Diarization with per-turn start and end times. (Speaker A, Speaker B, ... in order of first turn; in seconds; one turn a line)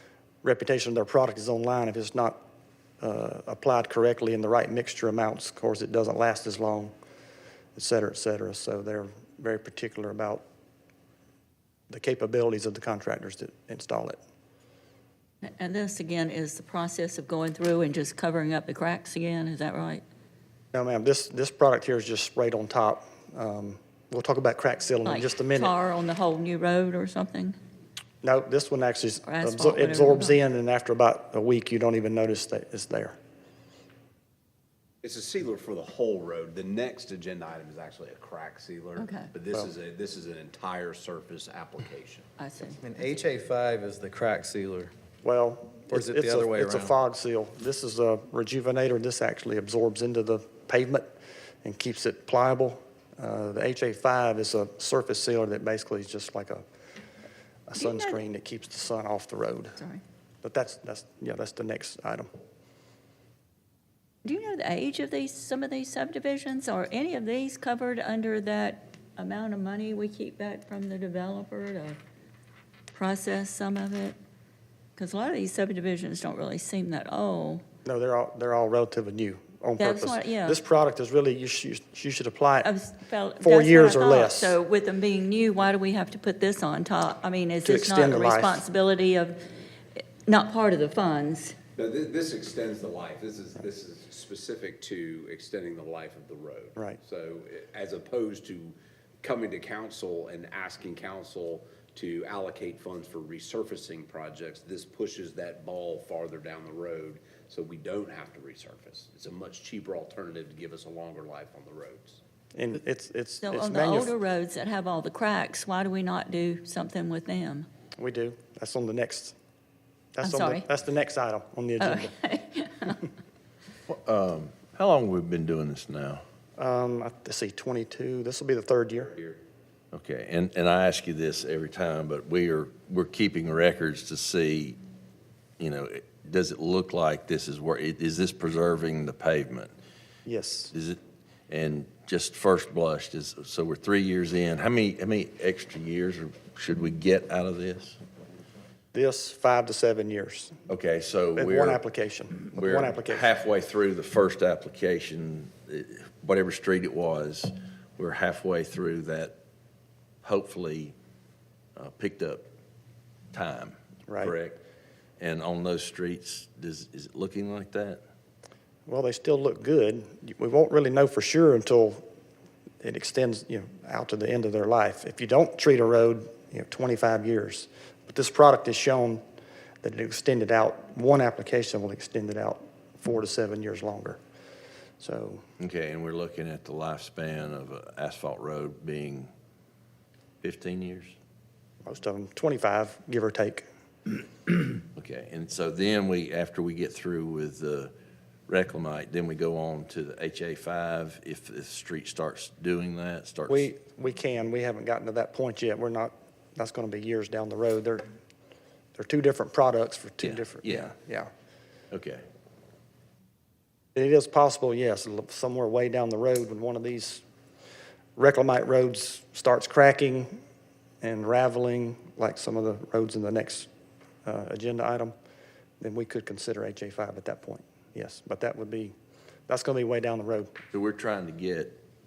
Speaker A: 0.4-2.4
Speaker A: 3.0-6.9
Speaker A: 7.8-10.4
Speaker A: 11.9-14.2
Speaker B: 15.5-20.0
Speaker A: 20.7-25.7
Speaker B: 25.1-27.6
Speaker A: 28.2-33.2
Speaker B: 29.2-30.4
Speaker C: 35.0-42.3
Speaker B: 39.0-39.3
Speaker B: 42.4-42.8
Speaker D: 42.8-44.9
Speaker A: 45.2-51.1
Speaker D: 45.9-47.0
Speaker A: 51.6-56.6
Speaker A: 57.7-59.8
Speaker B: 57.8-58.2
Speaker A: 60.4-62.3
Speaker B: 64.2-72.0
Speaker B: 72.9-74.2
Speaker B: 75.0-77.6
Speaker A: 77.8-82.7
Speaker B: 79.8-80.6
Speaker B: 82.6-89.4
Speaker A: 83.4-84.5
Speaker A: 87.7-88.6
Speaker B: 90.3-91.5
Speaker C: 91.8-112.2
Speaker A: 112.5-114.2
Speaker B: 113.4-117.7
Speaker A: 118.0-119.3
Speaker A: 120.2-122.1
Speaker B: 120.2-120.7
Speaker B: 121.8-123.0
Speaker E: 123.9-126.2
Speaker A: 126.6-129.3
Speaker E: 129.9-134.8
Speaker E: 135.6-139.7
Speaker A: 140.3-140.7
Speaker E: 140.7-148.0
Speaker A: 148.9-150.6
Speaker E: 150.7-151.8
Speaker A: 151.3-153.3
Speaker E: 152.5-159.3
Speaker E: 160.2-160.9
Speaker E: 161.8-162.5
Speaker E: 163.3-164.6
Speaker A: 164.1-164.3
Speaker E: 165.2-168.0
Speaker A: 168.9-172.0
Speaker A: 172.8-179.2
Speaker A: 179.8-184.2
Speaker A: 185.0-185.4
Speaker E: 185.6-189.3
Speaker E: 190.4-191.2
Speaker A: 191.8-193.7
Speaker E: 194.9-197.9
Speaker E: 198.5-203.7
Speaker A: 203.5-208.1
Speaker A: 209.0-211.3
Speaker E: 210.2-210.9
Speaker E: 211.9-212.2
Speaker A: 213.9-217.2
Speaker A: 218.2-220.4
Speaker A: 221.0-223.7
Speaker A: 224.2-225.1
Speaker A: 225.8-228.9
Speaker A: 229.5-230.6
Speaker E: 230.7-231.8